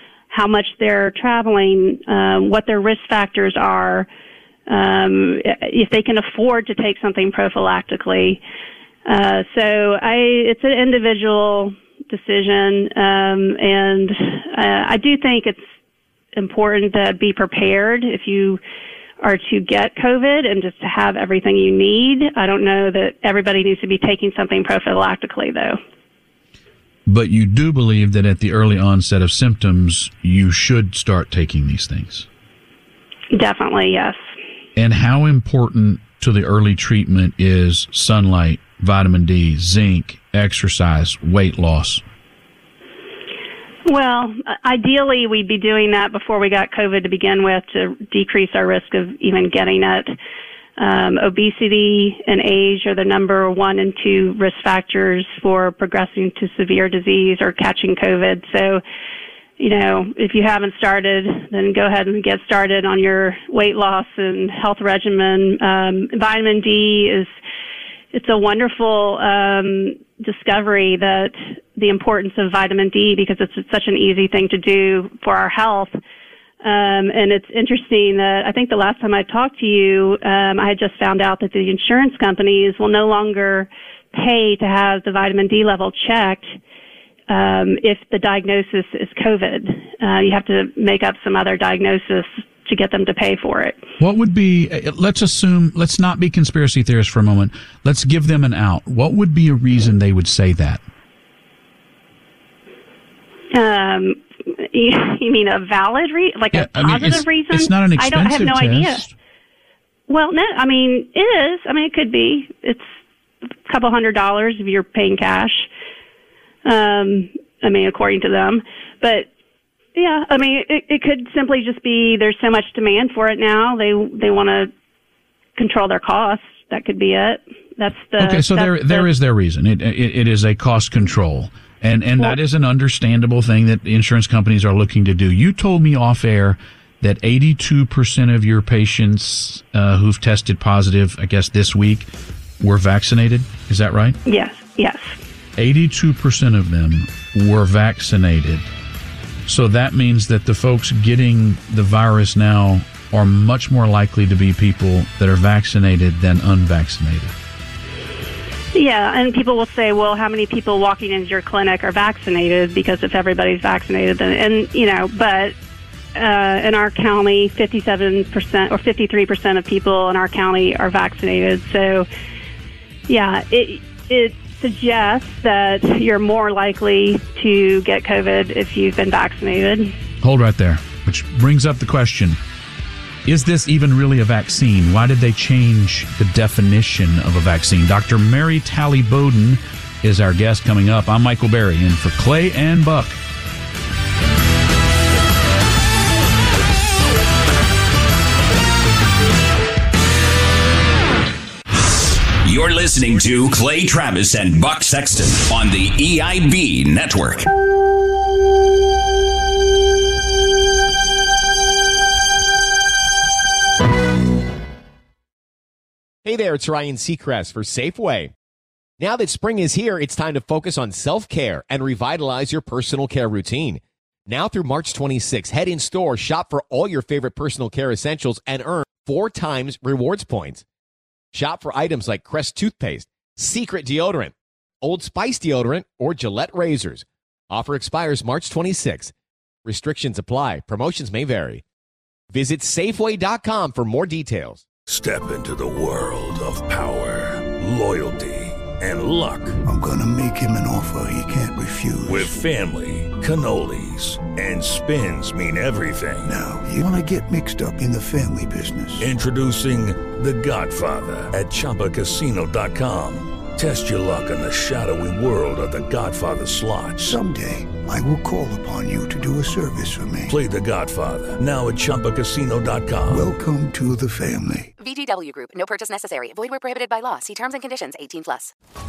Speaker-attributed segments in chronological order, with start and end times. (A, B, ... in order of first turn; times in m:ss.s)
0:00.3-0:04.1 A
0:04.7-0:08.4 A
0:09.1-0:15.7 A
0:16.4-0:18.6 A
0:19.2-0:25.8 A
0:27.1-0:32.3 B
0:33.3-0:34.2 A
0:34.8-0:42.0 B
0:43.9-0:50.1 A
0:50.8-0:58.8 A
0:59.6-1:07.3 A
1:08.1-1:16.0 A
1:16.6-1:26.6 A
1:27.3-1:33.8 A
1:34.0-1:40.8 B
1:43.5-1:49.1 A
1:46.5-1:49.1 B
1:50.1-1:52.9 A
1:53.7-1:55.7 A
1:56.6-1:59.3 A
2:00.0-2:04.7 A
2:05.6-2:09.1 A
2:08.2-2:22.1 B
2:22.6-2:24.2 B
2:24.3-2:25.2 A
2:25.6-2:28.7 B
2:29.5-2:37.3 B
2:38.7-2:45.6 A
2:46.2-2:52.1 A
2:53.1-3:00.0 A
3:00.2-3:02.4 B
3:03.2-3:13.2 B
3:22.4-3:27.5 C
3:36.2-3:38.3 D
3:39.0-3:50.6 D
3:51.3-3:59.1 D
3:59.6-4:01.6 D
4:02.3-4:04.7 D
4:04.9-4:09.6 E
4:09.6-4:12.4 F
4:12.1-4:16.3 E
4:16.2-4:19.1 F
4:19.0-4:27.2 E
4:27.0-4:30.4 F
4:30.3-4:33.3 E
4:33.1-4:34.7 F
4:34.8-4:38.5 G